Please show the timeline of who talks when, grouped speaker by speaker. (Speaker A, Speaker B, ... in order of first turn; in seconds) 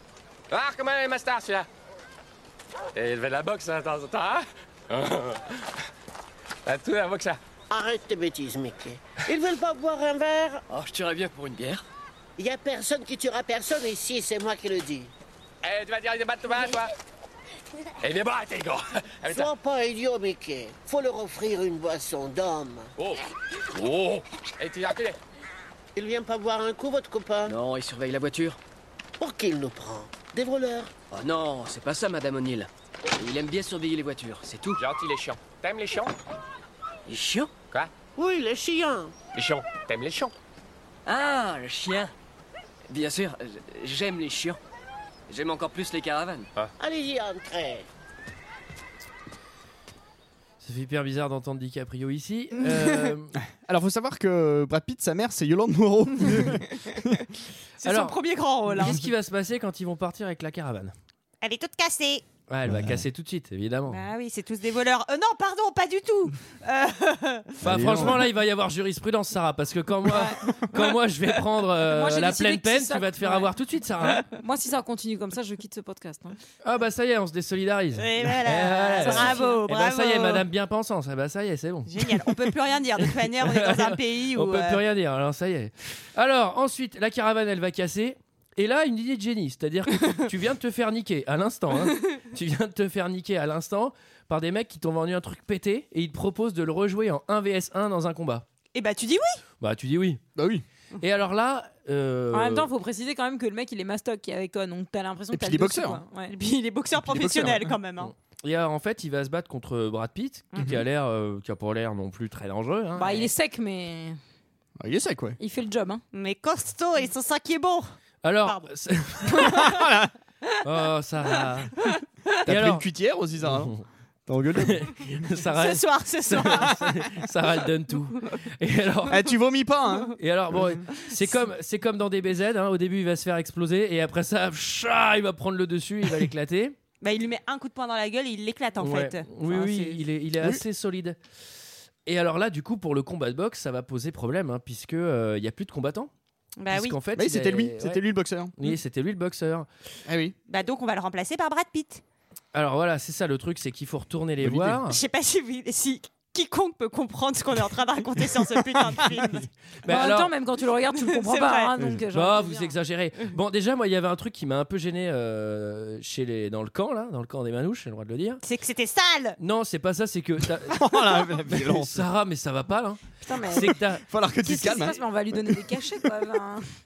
Speaker A: 0.5-1.7, 2.9-5.4, 6.7-7.4, 15.6-16.9, 18.0-19.5, 23.7-25.2, 34.8-36.1, 39.3-40.3
Speaker B: 7.7-10.6, 12.4-15.1, 19.3-22.9, 25.9-27.5, 29.2-30.9, 38.1-39.1, 46.8-47.9
Speaker C: 10.7-11.8, 27.4-28.6, 31.1-34.8, 37.1-37.5, 41.0-42.1, 42.9-44.6, 45.3-46.5
Speaker D: 50.6-53.3, 57.8-58.2, 58.8-60.9, 62.5-64.0, 67.6-74.2, 76.6-82.5, 83.0-98.5, 99.6-100.2, 101.0-102.7, 108.0-113.3, 118.2-119.7, 120.6-121.7, 122.5-122.8, 123.4-123.8, 124.6-129.3, 130.2-136.8, 138.8-141.2, 142.1-146.1, 146.7-148.0, 148.6-149.7, 152.5-155.0, 159.8-160.3, 162.1-168.4, 169.4-174.0
Speaker E: 53.4-57.2, 62.7-63.0, 67.6-68.2, 100.3-100.6, 105.3-106.0, 107.0-107.8, 114.8-115.4, 119.5-120.1, 122.4-123.7, 124.3-125.2, 129.1-130.8, 147.1-148.5, 150.1-150.3, 154.4-154.8, 159.0-159.3, 170.7-172.1, 174.1-175.6
Speaker F: 57.8-59.0, 61.4-62.2, 63.9-68.1, 78.0-80.4, 81.9-84.8, 98.7-99.4, 106.3-108.1, 116.1-118.7, 119.2-119.8, 125.5-127.0, 137.0-140.0, 146.6-147.0, 150.5-152.0, 154.9-159.5, 160.9-161.7, 168.4-169.4
Speaker G: 71.8-73.5, 74.3-76.4, 79.0-79.6, 102.3-106.3, 113.0-114.2, 115.4-116.0, 159.9-162.7, 173.2-173.8, 174.4-176.7